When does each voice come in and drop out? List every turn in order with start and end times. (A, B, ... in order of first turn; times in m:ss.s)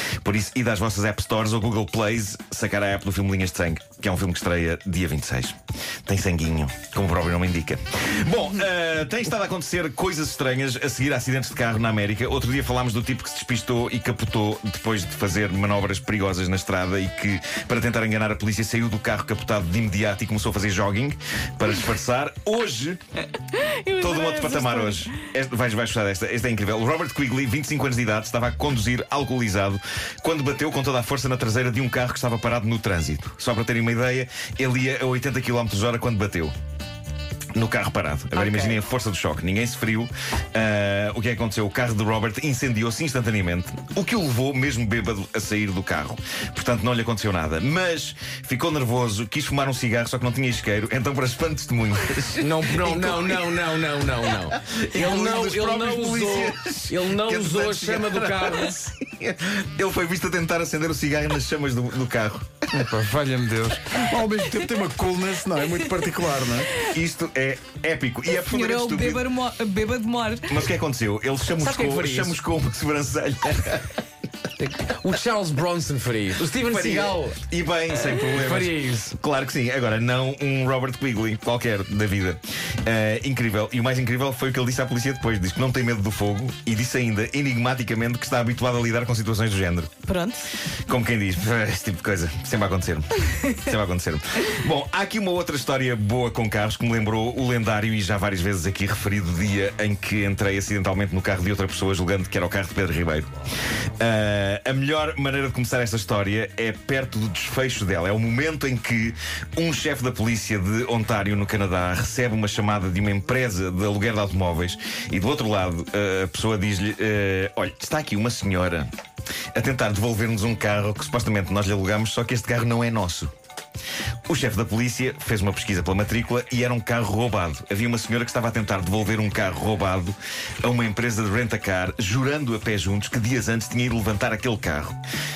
0:00.2-0:23.0 A
0:23.5-0:25.1 B
0:24.0-0:36.5 A
0:37.5-1:02.9 A
0:38.4-0:38.8 B
0:52.4-0:58.8 C
1:02.7-1:06.8 D
1:06.8-1:09.3 A
1:08.3-1:10.7 B
1:10.5-1:13.9 A
1:11.6-1:12.4 C
1:14.6-1:17.4 C
1:16.5-1:30.0 A
1:17.9-1:19.2 C
1:30.0-1:30.5 B
1:30.8-1:43.3 A
1:44.0-1:58.9 A
1:59.5-2:03.3 A
2:04.3-2:15.0 A